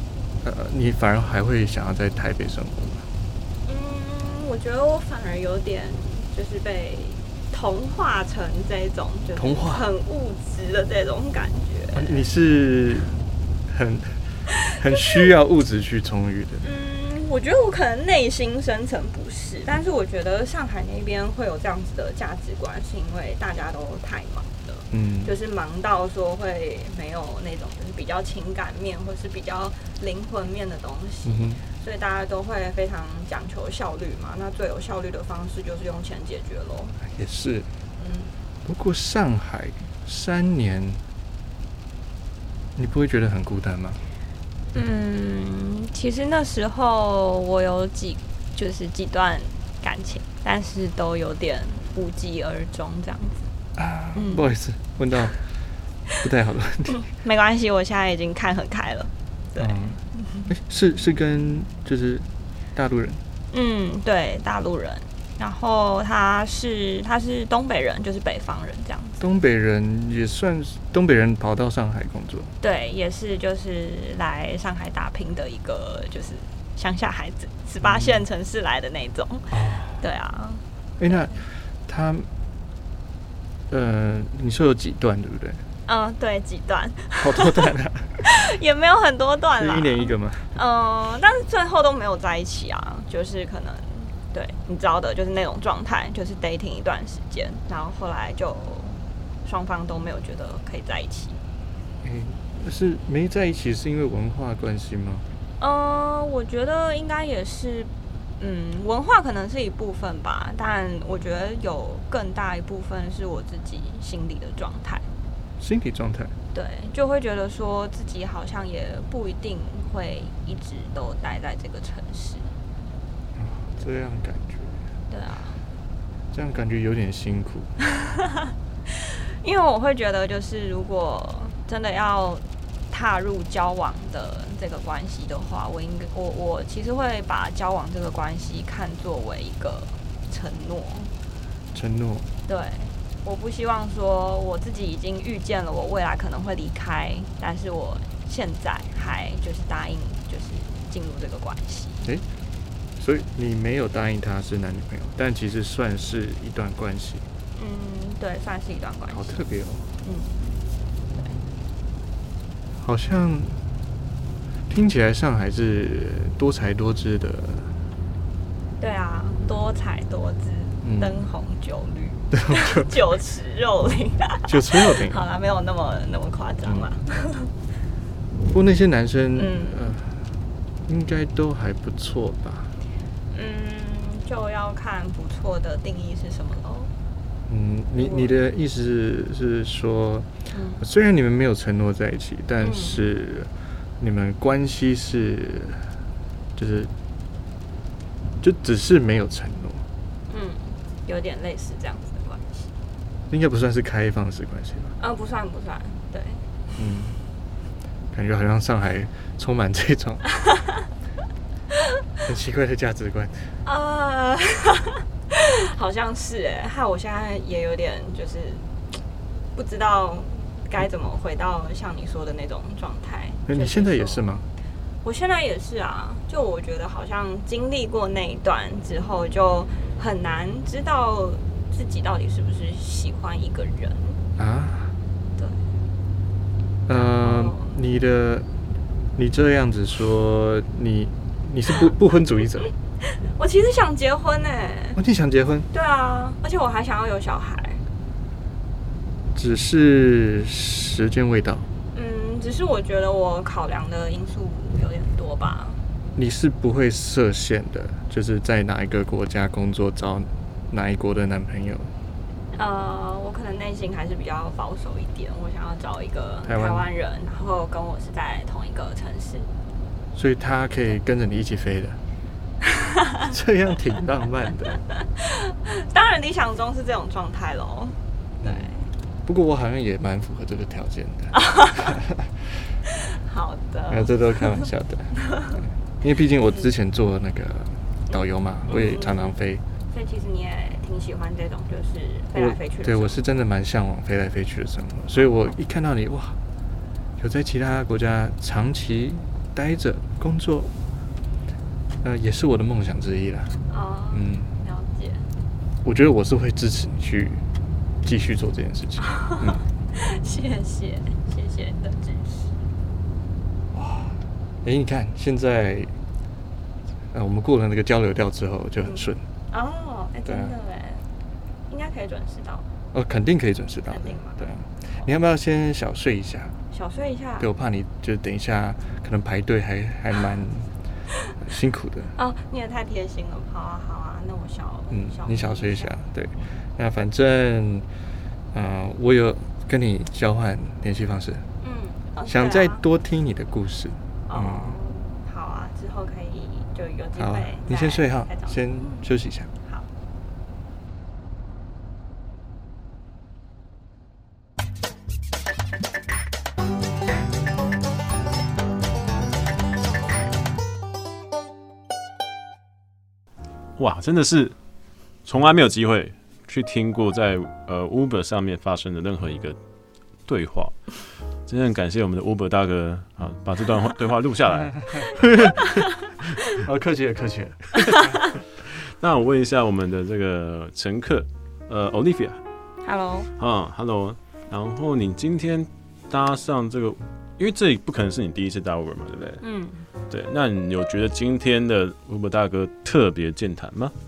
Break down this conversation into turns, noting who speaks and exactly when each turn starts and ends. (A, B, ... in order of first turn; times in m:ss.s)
0:00.4-0:03.1 A
0:03.6-0:12.2 B
0:09.3-0:09.8 A
0:11.9-0:13.1 A
0:13.7-0:16.6 A
0:14.5-0:14.8 B
0:16.6-0:37.0 B
0:24.9-0:25.3 A
0:31.2-0:31.6 A
0:37.0-0:37.7 A
0:38.0-0:38.4 B
0:38.6-0:41.0 A
0:42.8-0:44.0 A
0:44.7-0:53.5 B
0:53.8-0:55.4 A
0:54.1-0:54.5 B
0:56.2-0:57.0 A
0:57.0-1:00.5 B
0:59.6-1:03.2 A
1:03.5-1:09.2 B
1:09.2-1:12.5 A
1:12.6-1:21.4 B
1:17.8-1:18.2 A
1:19.5-1:20.0 A
1:21.0-1:22.3 A
1:23.7-1:25.6 A
1:25.8-1:41.4 B
1:27.2-1:28.2 A
1:29.6-1:30.5 A
1:42.0-1:45.2 A
1:45.6-1:55.0 B
1:55.6-1:56.3 A
1:56.5-2:02.5 B
2:03.4-2:04.8 A
2:05.1-2:05.6 B
2:06.3-2:07.7 A
2:08.1-2:08.4 B
2:08.9-2:21.1 B
2:21.7-2:22.3 A
2:22.5-2:32.1 B
2:33.0-2:37.2 A
2:37.6-2:39.4 B
2:39.1-2:39.9 A
2:40.0-2:40.6 B
2:41.1-2:41.4 B
2:42.8-2:43.6 A
2:44.7-2:47.7 A
2:48.8-2:57.5 B
2:50.8-2:51.1 A
2:52.3-2:52.9 A
2:54.5-2:55.2 A
2:58.5-3:00.3 A
2:59.4-3:00.0 B
3:00.9-3:02.7 A
3:03.3-3:06.9 B
3:07.5-3:10.3 A
3:07.9-3:08.4 B
3:10.5-3:10.8 B
3:10.8-3:15.9 A
3:12.6-3:13.0 B
3:16.6-3:16.9 A
3:18.4-3:19.8 A
3:20.3-3:22.6 B
3:23.3-3:25.0 A
3:25.0-3:26.4 B
3:26.8-3:27.2 A
3:28.1-3:30.2 A
3:30.4-3:30.7 B
3:32.2-3:33.5 A
3:33.6-3:38.7 B
3:39.5-3:44.4 B
3:43.5-3:44.4 A
3:45.0-3:54.2 B
3:54.4-3:54.9 A
3:56.8-3:58.5 A
3:56.9-3:57.8 B
3:59.2-4:02.7 A
4:03.0-4:05.0 B
4:05.0-4:05.7 A
4:05.7-4:07.8 B
4:09.3-4:11.7 A
4:11.9-4:15.8 B
4:16.2-4:21.9 A
4:22.5-4:29.5 B
4:26.4-4:26.9 A
4:30.1-4:32.0 A
4:32.7-4:33.2 B
4:33.3-4:34.8 A
4:34.9-4:38.9 B
4:38.4-4:38.7 A
4:39.2-4:42.7 A
4:41.3-4:41.9 B
4:42.9-4:44.6 B
4:43.9-4:49.6 A
4:45.2-4:45.6 B
4:48.1-4:49.3 B
4:49.9-4:53.2 B
4:52.3-4:56.4 A
4:57.2-5:00.7 A
5:02.0-5:03.6 A
5:03.7-5:05.3 B
5:04.1-5:04.5 A
5:05.8-5:07.4 A
5:08.0-5:09.6 A
5:09.1-5:12.5 B
5:13.7-5:15.9 A
5:17.1-5:19.2 A
5:18.8-5:21.1 B
5:20.2-5:20.5 A
5:21.7-5:22.6 B
5:22.9-5:26.6 A
5:23.9-5:25.1 B
5:26.7-5:27.5 B
5:27.4-5:30.7 A
5:31.4-5:32.1 A
5:32.2-5:35.9 B
5:34.9-5:37.9 A
5:38.5-5:41.4 A
5:41.6-5:42.8 B
5:42.2-5:44.8 A
5:44.3-5:49.0 B
5:47.2-5:49.5 A
6:03.8-6:04.5 C
6:05.2-6:09.6 C
6:10.3-6:15.7 C
6:16.6-6:17.8 A
6:18.6-6:22.4 C
6:22.8-6:23.3 B
6:23.4-6:29.4 C
6:29.4-6:29.8 B
6:30.1-6:33.9 C